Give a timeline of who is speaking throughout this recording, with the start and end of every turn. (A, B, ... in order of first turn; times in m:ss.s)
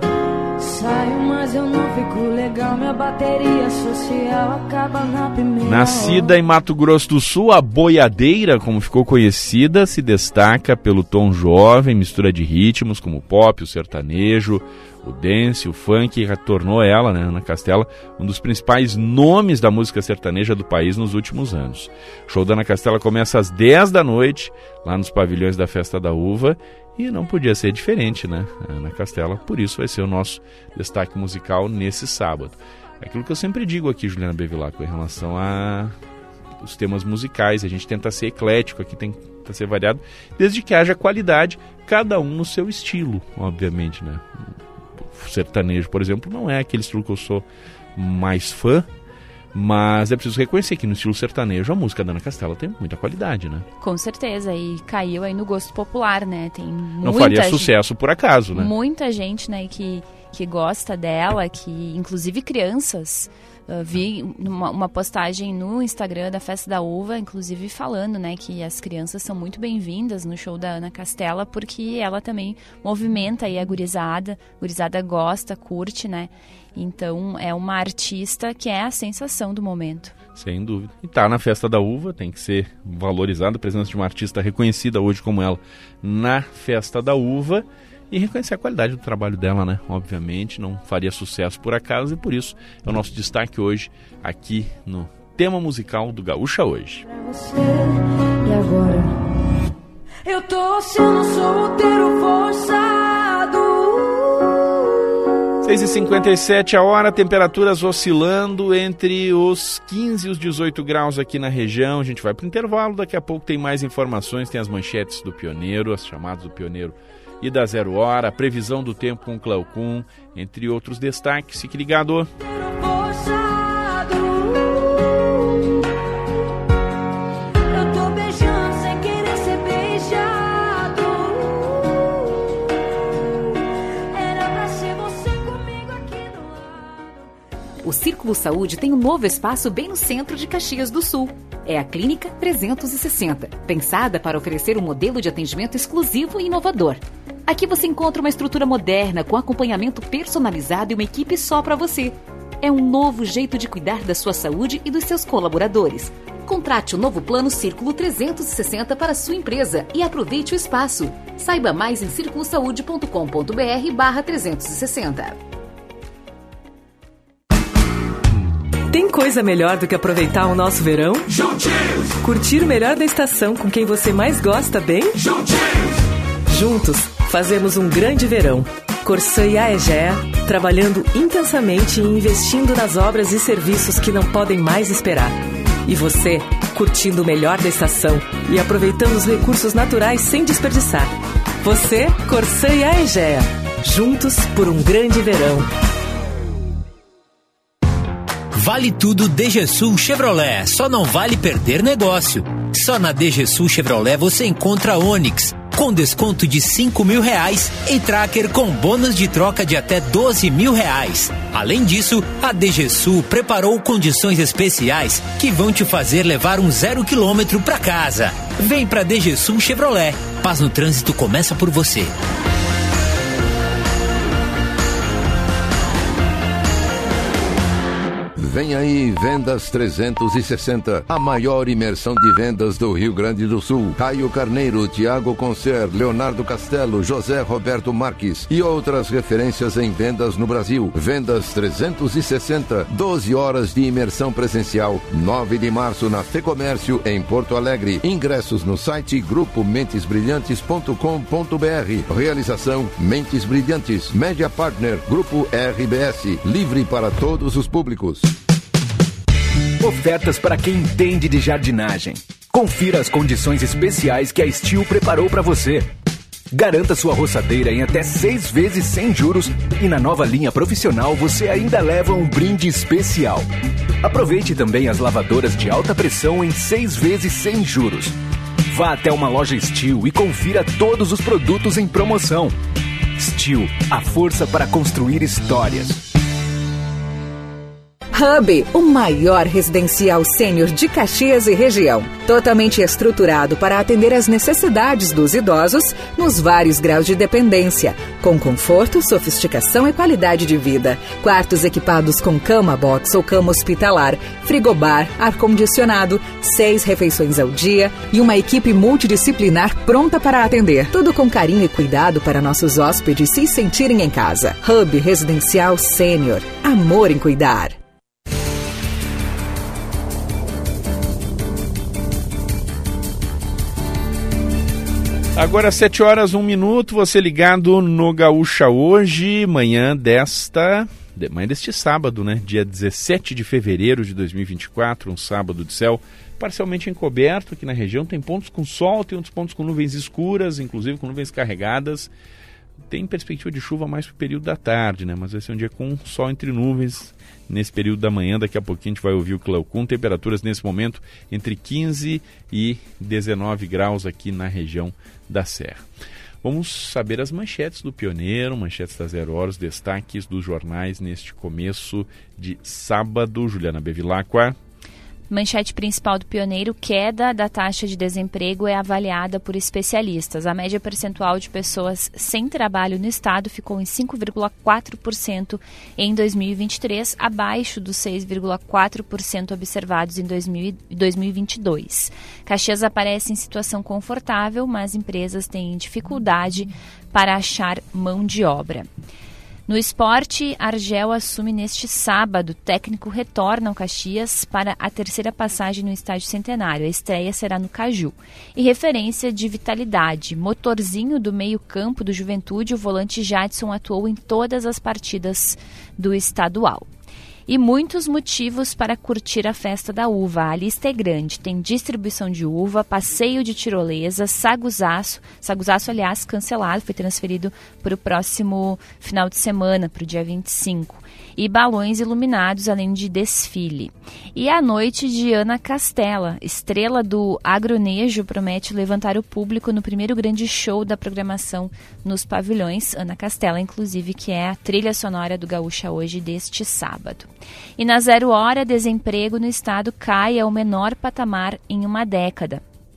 0:00.6-0:06.4 A
0:05.6-0:35.9 B
0:36.6-0:44.2 B
0:45.0-0:47.4 B
0:48.0-0:48.9 B
0:49.5-0:53.6 B
0:53.8-0:57.7 C
0:57.0-0:58.7 B
0:58.5-1:20.1 C
1:20.3-1:37.0 B
1:37.1-1:39.3 A
1:40.2-1:44.8 A
1:45.6-2:02.3 B
2:02.4-2:05.7 A
2:07.7-2:12.5 A
2:14.1-2:17.3 A
2:17.8-2:45.4 D
2:48.9-2:51.5 E
2:52.2-2:55.3 E
2:56.5-3:15.7 E
3:18.5-3:42.1 F
3:48.4-4:18.3 G
4:19.8-4:25.9 H
4:26.5-4:33.5 H
4:34.0-4:38.2 H
4:38.7-4:42.6 H
4:43.2-4:46.0 H
4:48.1-5:17.8 I
5:25.4-5:42.1 B
5:42.9-5:55.8 B
5:56.4-6:04.6 B
6:05.3-6:28.9 C
6:29.7-6:46.9 C
6:47.5-7:22.6 C